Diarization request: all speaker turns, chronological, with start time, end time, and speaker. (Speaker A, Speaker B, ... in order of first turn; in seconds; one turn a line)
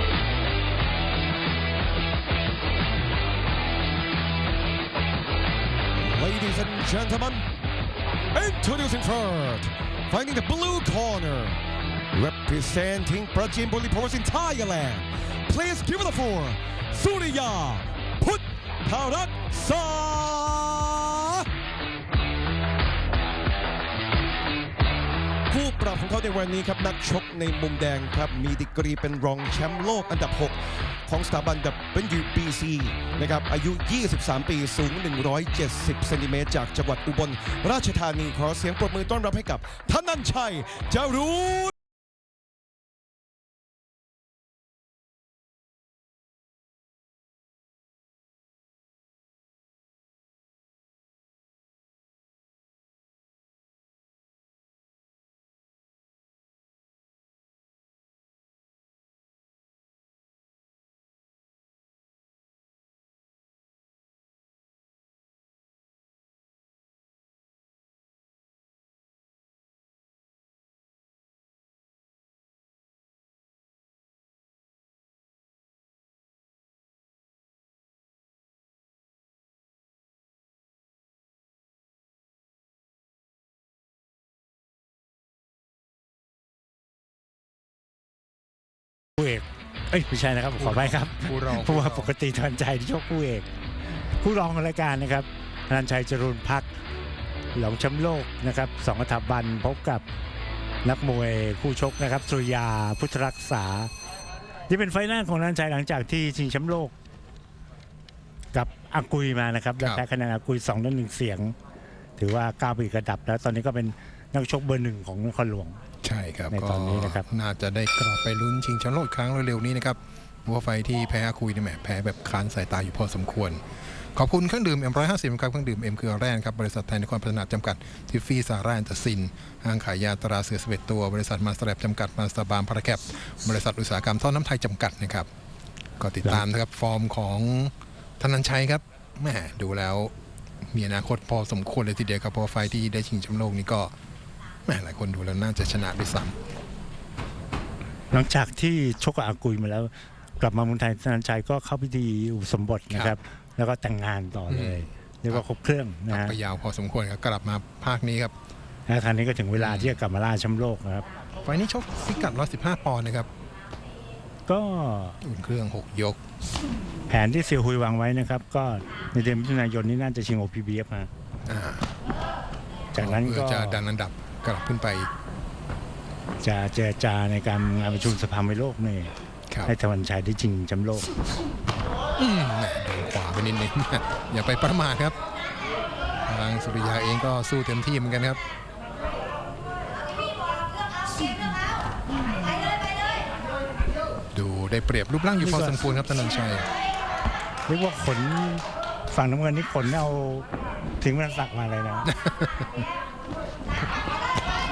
Speaker A: 6.0-7.5
Speaker A: 8.3-11.6
Speaker A: 12.1-21.5
Speaker A: 25.5-41.7
Speaker B: 89.2-93.5
Speaker C: 90.6-92.1
Speaker B: 94.2-96.7
Speaker B: 97.5-100.0
Speaker B: 100.8-103.9
Speaker B: 104.7-106.9
Speaker B: 108.5-111.6
Speaker B: 112.2-115.8
Speaker C: 116.0-123.6
Speaker B: 116.5-117.2
Speaker C: 124.2-135.3
Speaker C: 136.0-140.1
Speaker C: 140.7-143.9
Speaker C: 144.7-146.3
Speaker B: 148.1-156.4
Speaker C: 152.9-153.2
Speaker C: 154.5-154.8
Speaker C: 156.1-158.3
Speaker B: 158.9-161.1
Speaker C: 159.6-160.0
Speaker C: 161.4-163.3
Speaker B: 164.5-165.2
Speaker C: 165.2-166.2
Speaker B: 167.1-171.1
Speaker C: 171.5-171.8
Speaker B: 172.9-173.8
Speaker C: 173.0-175.1
Speaker B: 176.4-179.1
Speaker B: 179.7-181.1
Speaker C: 182.2-185.2
Speaker C: 186.3-188.4
Speaker C: 194.3-196.7
Speaker B: 195.4-195.8
Speaker B: 197.7-200.5
Speaker B: 201.0-202.1
Speaker C: 202.1-202.7